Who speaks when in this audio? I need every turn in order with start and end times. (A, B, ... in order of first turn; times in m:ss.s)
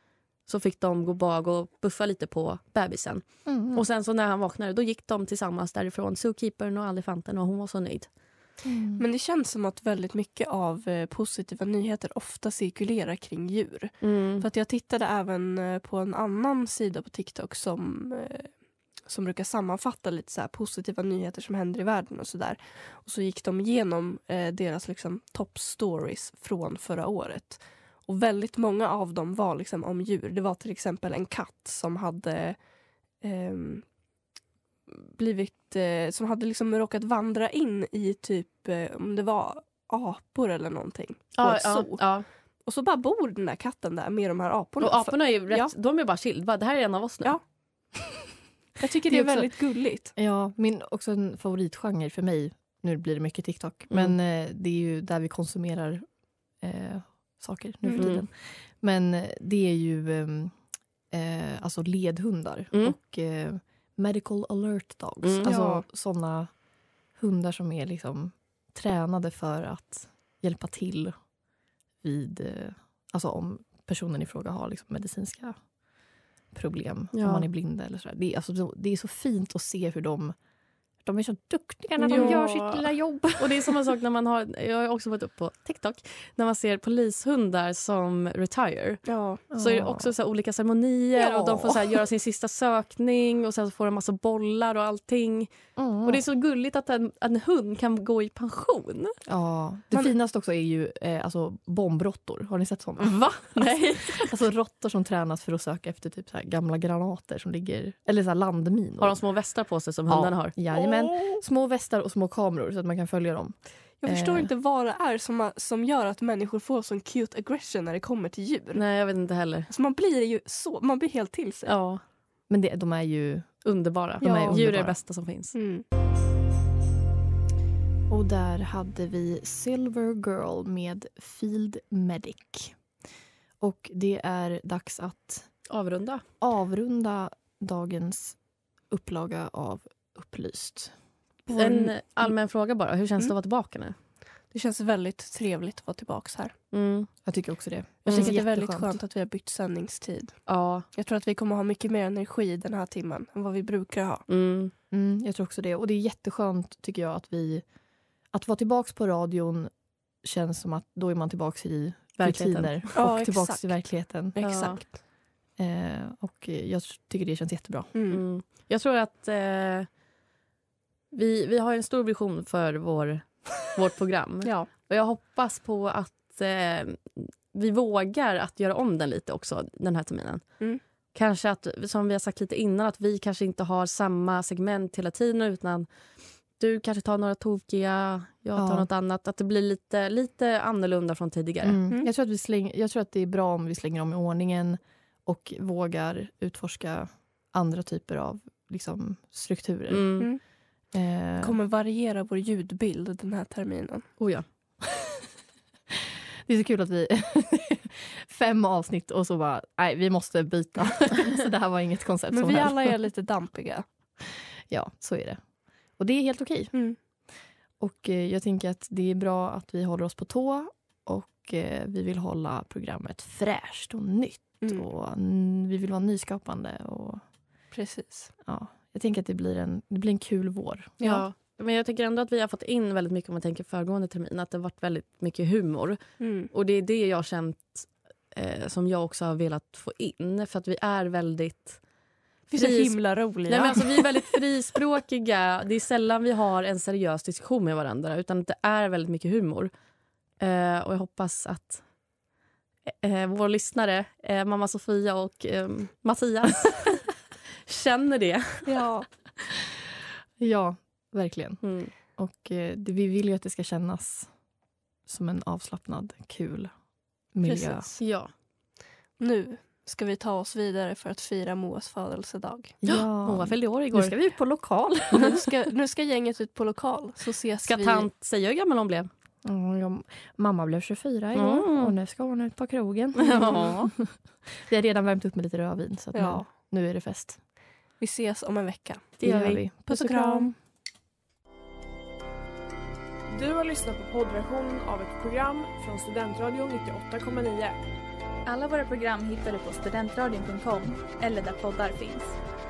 0:00.5-0:08.1 A
0:03.5-0:03.8 B
0:08.6-0:09.0 B
0:09.0-0:18.5 C
0:14.0-0:14.4 A
0:19.1-0:32.6 C
0:33.2-0:33.8 C
0:34.9-0:42.0 C
0:41.4-0:42.3 A
0:42.6-0:45.7 C
0:44.8-0:47.4 A
0:48.8-0:50.1 C
0:49.1-0:49.5 B
0:50.2-0:56.0 B
0:56.6-1:00.6 B
0:57.8-0:58.1 C
0:58.0-0:58.3 A
1:01.1-1:06.5 B
1:05.2-1:05.5 A
1:05.4-1:05.8 C
1:07.2-1:11.2 B
1:12.0-1:15.6 B
1:16.5-1:20.4 B
1:17.1-1:17.5 A
1:21.0-1:23.8 B
1:22.0-1:22.8 A
1:22.1-1:22.4 C
1:23.4-1:29.0 A
1:29.0-1:29.4 C
1:29.5-1:30.1 B
1:29.6-1:35.5 A
1:31.1-1:32.0 B
1:35.8-1:36.2 B
1:36.0-1:39.2 A
1:39.3-1:49.2 B
1:43.0-1:44.4 A
1:49.0-1:50.5 A
1:50.1-1:54.5 B
1:54.0-1:58.8 C
1:58.7-1:59.7 A
1:59.7-2:01.7 C
2:01.7-2:02.0 A
2:02.5-2:03.5 B
2:03.6-2:05.6 A
2:04.2-2:05.0 B
2:04.2-2:04.6 C
2:05.5-2:05.8 C
2:08.1-2:12.8 B
2:13.6-2:15.5 B
2:15.7-2:16.2 A
2:16.4-2:18.4 B
2:18.9-2:20.9 B
2:21.5-2:21.9 C
2:21.6-2:24.0 A
2:24.5-2:26.6 C
2:26.7-2:27.1 A
2:27.2-2:29.0 B
2:28.1-2:28.4 A
2:28.1-2:30.4 C
2:30.5-2:30.8 A
2:30.9-2:34.3 C
2:34.3-2:34.7 A
2:34.9-2:37.6 B
2:38.3-2:39.7 B
2:40.2-2:44.4 B
2:42.2-2:43.0 A
2:43.0-2:43.8 C
2:44.3-2:45.0 C
2:44.4-2:44.8 A
2:45.6-2:47.9 B
2:47.9-2:48.2 C
2:48.1-2:49.9 A
2:51.1-3:00.4 A
2:54.4-2:54.7 C
3:01.1-3:05.9 A
3:06.6-3:11.8 A
3:08.6-3:08.9 B
3:11.6-3:20.1 B
3:19.9-3:20.3 A
3:20.9-3:21.6 B
3:21.4-3:24.1 C
3:24.2-3:24.4 A
3:24.8-3:25.2 B
3:25.9-3:33.0 B
3:32.3-3:33.8 C
3:34.7-3:35.4 B
3:36.0-3:36.7 B
3:37.8-3:47.2 B
3:47.7-3:48.3 C
3:48.4-3:50.9 B
3:51.0-3:51.3 C
3:51.0-4:01.8 A
3:56.2-3:56.5 C
4:02.5-4:04.4 C
4:02.6-4:09.7 A
4:10.4-4:11.8 A
4:12.9-4:17.0 A
4:17.7-4:18.7 A
4:18.6-4:19.1 C
4:20.4-4:21.6 B
4:21.6-4:21.9 A
4:22.2-4:24.3 B
4:25.1-4:26.7 B
4:27.3-4:27.9 B
4:27.4-4:28.0 C
4:28.0-4:28.3 A
4:29.2-4:32.8 C
4:32.8-4:35.4 B
4:32.9-4:34.2 A
4:35.1-4:38.1 C
4:37.6-4:39.1 A
4:39.4-4:47.4 B
4:41.4-4:42.0 A
4:43.2-4:43.9 A
4:46.1-4:46.5 C
4:48.0-4:49.2 C
4:49.2-4:50.5 A
4:49.2-4:49.9 B
4:49.9-4:50.5 C
4:53.3-4:57.8 D
4:58.5-5:02.4 E